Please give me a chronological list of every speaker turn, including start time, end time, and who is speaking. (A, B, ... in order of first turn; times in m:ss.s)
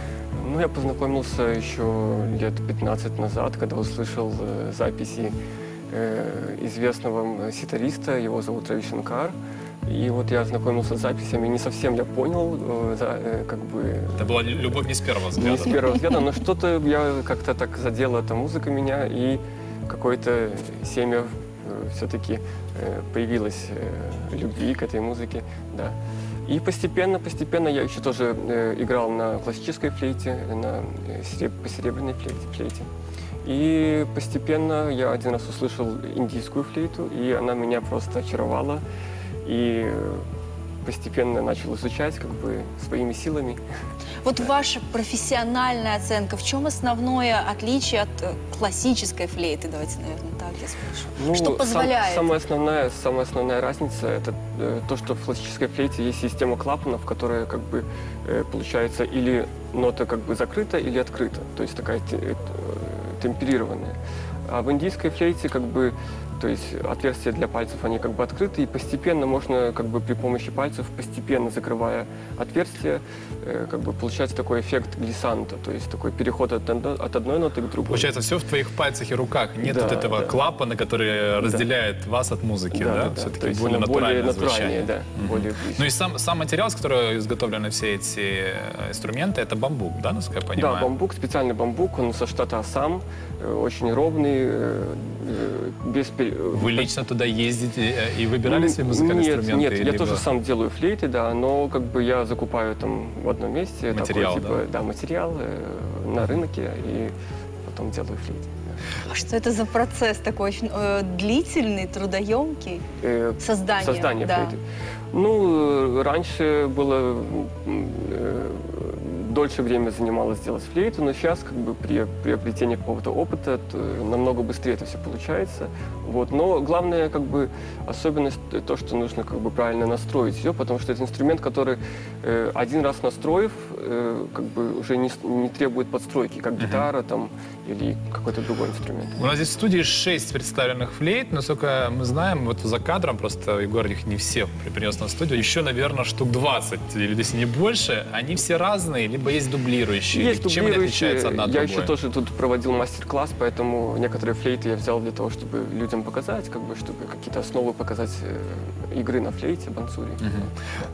0:00.4-0:05.3 A
0:05.9-0:14.8 A
0:14.2-0:15.9 B
0:15.3-0:32.9 A
0:33.4-0:38.8 A
0:39.4-0:40.3 A
0:40.8-0:43.6 A
0:44.2-0:52.3 C
0:51.2-1:18.1 A
1:17.9-1:30.9 B
1:19.6-1:20.4 A
1:21.4-1:21.7 A
1:22.7-1:25.9 A
1:30.5-1:36.9 A
1:36.5-1:40.2 B
1:38.4-1:48.8 A
1:43.9-1:44.6 B
1:49.0-1:52.8 C
1:53.0-1:54.6 A
1:53.4-1:54.5 C
1:55.1-2:19.2 A
2:16.6-2:16.9 B
2:19.2-2:31.9 B
2:30.1-2:40.2 A
2:40.2-2:40.5 B